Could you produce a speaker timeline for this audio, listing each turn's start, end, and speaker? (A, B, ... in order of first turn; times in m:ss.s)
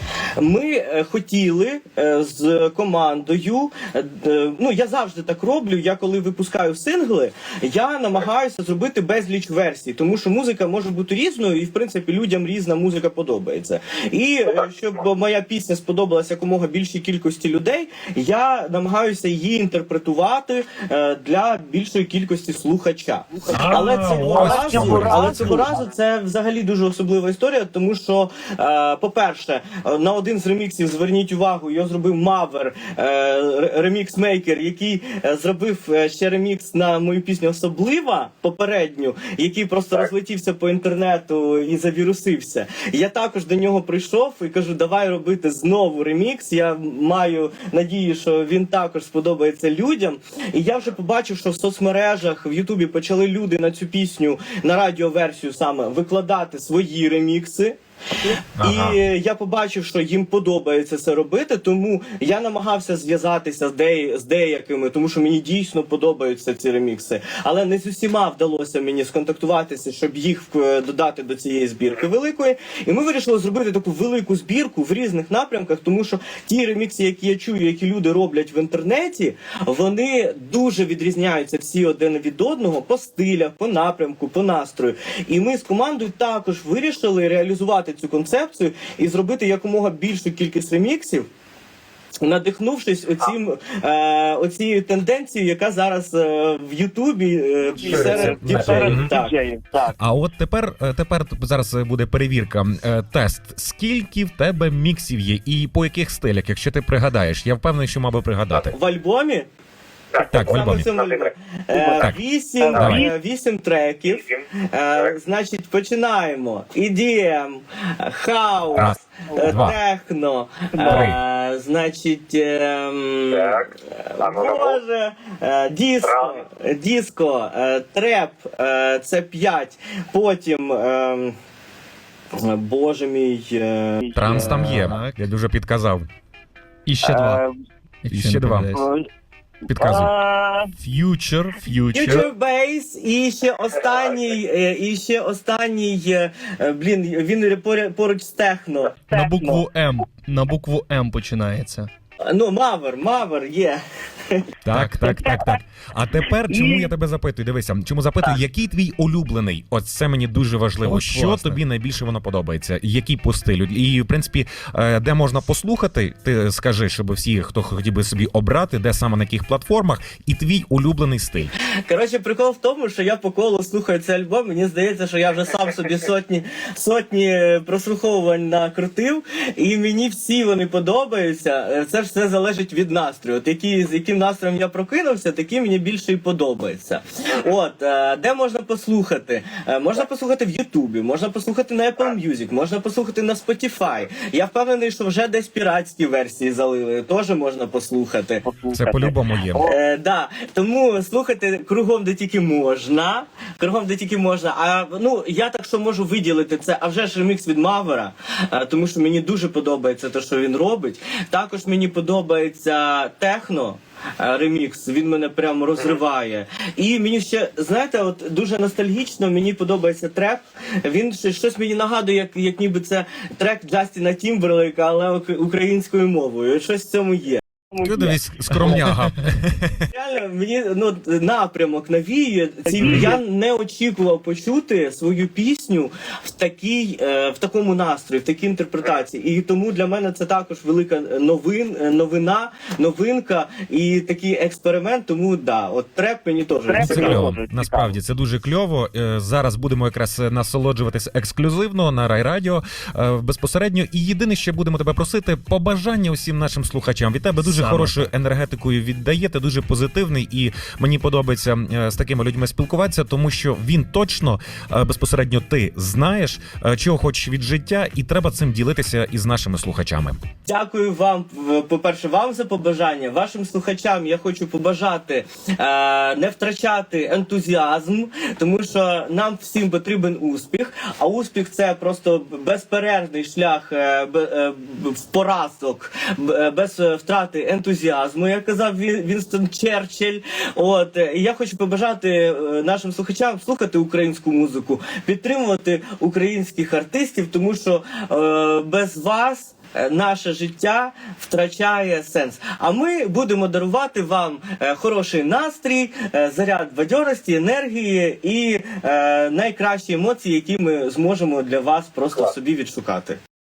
0:00.4-0:57.8 A
0:23.5-0:25.7 B
0:24.3-0:25.7 C
0:58.6-0:59.0 B
0:58.6-1:31.3 A
1:32.2-1:39.4 A
1:37.8-1:39.9 C
1:37.9-1:39.1 B
1:40.0-1:48.7 B
1:48.7-1:49.4 A
1:50.1-2:11.3 A
1:50.3-1:50.9 B
1:51.7-1:53.1 C
1:52.8-1:53.1 B
1:58.7-1:59.8 B
1:59.3-1:59.7 C
2:00.8-2:01.1 C
2:00.9-2:01.2 B
2:12.4-2:14.6 A
2:14.0-2:14.8 C
2:14.1-2:16.1 B
2:14.7-2:15.2 D
2:16.8-2:17.4 D
2:17.0-2:17.6 C
2:18.0-2:18.8 D
2:18.1-2:18.7 B
2:18.7-2:19.1 C
2:19.7-2:20.1 B
2:19.8-2:20.7 C
2:20.8-2:22.3 D
2:21.9-2:29.0 A
2:29.0-2:29.6 C
2:29.1-2:31.9 D
2:32.2-2:34.4 A
2:34.6-2:51.5 B
2:34.7-2:35.0 D
2:35.1-2:35.4 C
2:36.5-2:36.9 C
2:40.8-2:41.6 D
2:51.9-3:18.4 A
3:18.4-3:19.8 C
3:18.7-3:19.6 B
3:19.6-3:47.4 A
3:47.7-3:48.9 C
3:47.8-3:49.8 B
3:49.9-4:07.2 A
3:52.7-3:53.2 C
3:52.8-3:53.1 B
4:06.7-4:07.9 C
4:06.8-4:30.2 B
4:17.4-4:18.1 D
4:30.5-5:13.2 A